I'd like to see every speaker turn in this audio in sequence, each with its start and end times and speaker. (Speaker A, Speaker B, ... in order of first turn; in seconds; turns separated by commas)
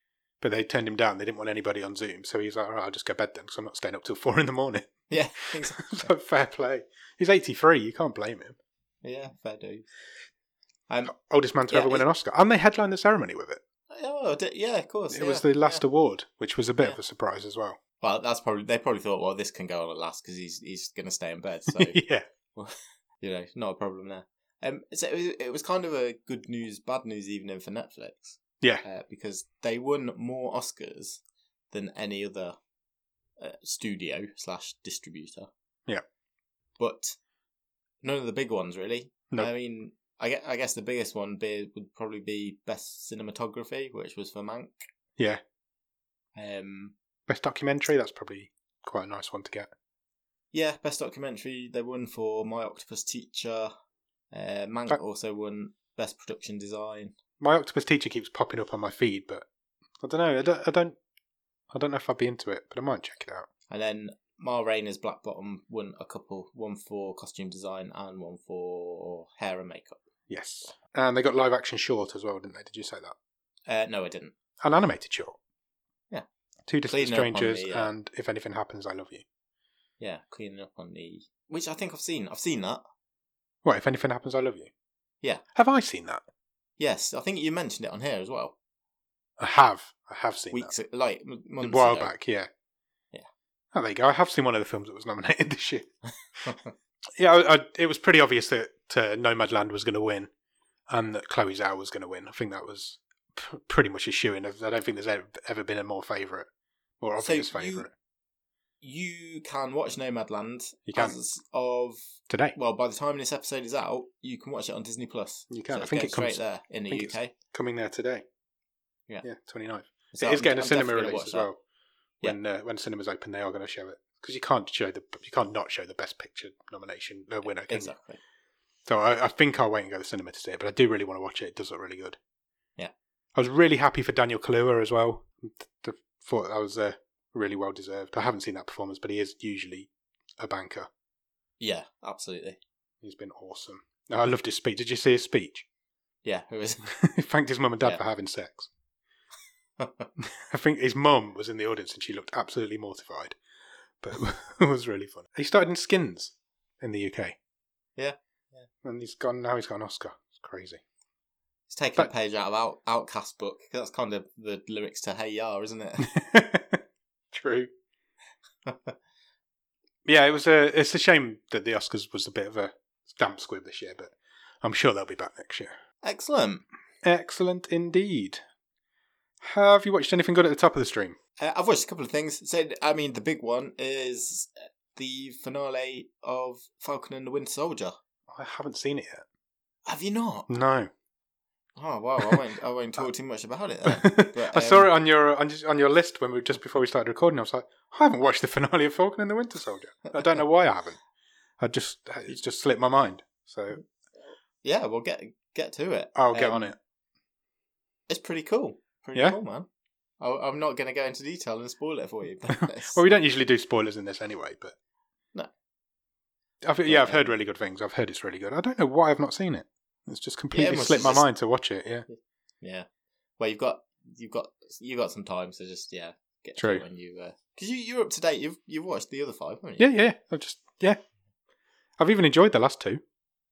Speaker A: 0.4-5.0, Speaker B: 5.1-6.1, Speaker A: 5.8-8.6, Speaker B: 9.0-9.9, Speaker A: 11.1-13.6, Speaker B: 11.7-12.1, Speaker B: 13.9-15.8, Speaker A: 15.1-17.8, Speaker B: 18.0-22.0, Speaker A: 21.7-22.2, Speaker B: 22.5-31.2, Speaker B: 31.7-32.6, Speaker B: 33.4-35.5, Speaker B: 36.8-37.2, Speaker B: 38.0-44.8, Speaker B: 46.4-47.0, Speaker A: 47.3-49.7, Speaker B: 50.5-53.7, Speaker B: 54.3-57.1, Speaker A: 57.4-59.5, Speaker A: 60.0-61.0, Speaker A: 61.7-63.5, Speaker B: 63.7-70.0, Speaker A: 70.3-73.2, Speaker B: 73.7-74.3, Speaker A: 74.6-75.4, Speaker A: 76.7-79.2, Speaker B: 76.9-77.9, Speaker B: 80.0-82.8, Speaker A: 83.6-84.7, Speaker A: 85.5-86.2, Speaker B: 86.8-88.6, Speaker A: 89.4-90.7, Speaker B: 90.5-92.1, Speaker A: 91.6-92.5, Speaker A: 93.7-95.9, Speaker B: 96.4-96.7, Speaker A: 97.2-100.3, Speaker A: 100.9-106.5, Speaker A: 107.0-107.9, Speaker B: 107.2-107.9, Speaker B: 108.8-112.0, Speaker A: 110.9-111.2, Speaker A: 112.3-112.5, Speaker B: 112.5-117.3, Speaker A: 115.5-118.2, Speaker A: 119.2-121.6, Speaker B: 120.1-121.5, Speaker A: 122.2-127.9, Speaker B: 127.7-128.2, Speaker A: 128.9-132.2, Speaker A: 133.3-140.9, Speaker B: 141.6-142.6, Speaker A: 143.0-145.7, Speaker B: 146.2-146.9, Speaker A: 146.9-148.7, Speaker B: 149.8-150.1, Speaker A: 150.2-153.4, Speaker A: 154.0-157.4, Speaker B: 158.0-158.7, Speaker A: 158.8-160.8, Speaker B: 161.7-166.1, Speaker A: 166.0-167.7, Speaker B: 168.7-169.0, Speaker A: 170.1-175.7, Speaker B: 176.0-176.7, Speaker A: 177.0-178.4, Speaker A: 179.4-181.2, Speaker B: 181.4-188.0, Speaker A: 188.3-189.2, Speaker B: 189.9-190.5, Speaker A: 190.5-190.9, Speaker B: 191.8-194.9, Speaker A: 193.9-201.0, Speaker A: 201.6-203.8, Speaker B: 204.6-206.7, Speaker A: 206.2-206.8, Speaker B: 208.1-209.7, Speaker B: 210.2-213.2, Speaker A: 212.8-214.8, Speaker A: 216.6-222.1, Speaker B: 216.8-217.3, Speaker B: 220.5-221.3, Speaker B: 222.1-222.9, Speaker B: 223.4-229.9, Speaker A: 226.6-226.8, Speaker A: 229.8-231.0, Speaker A: 232.0-233.0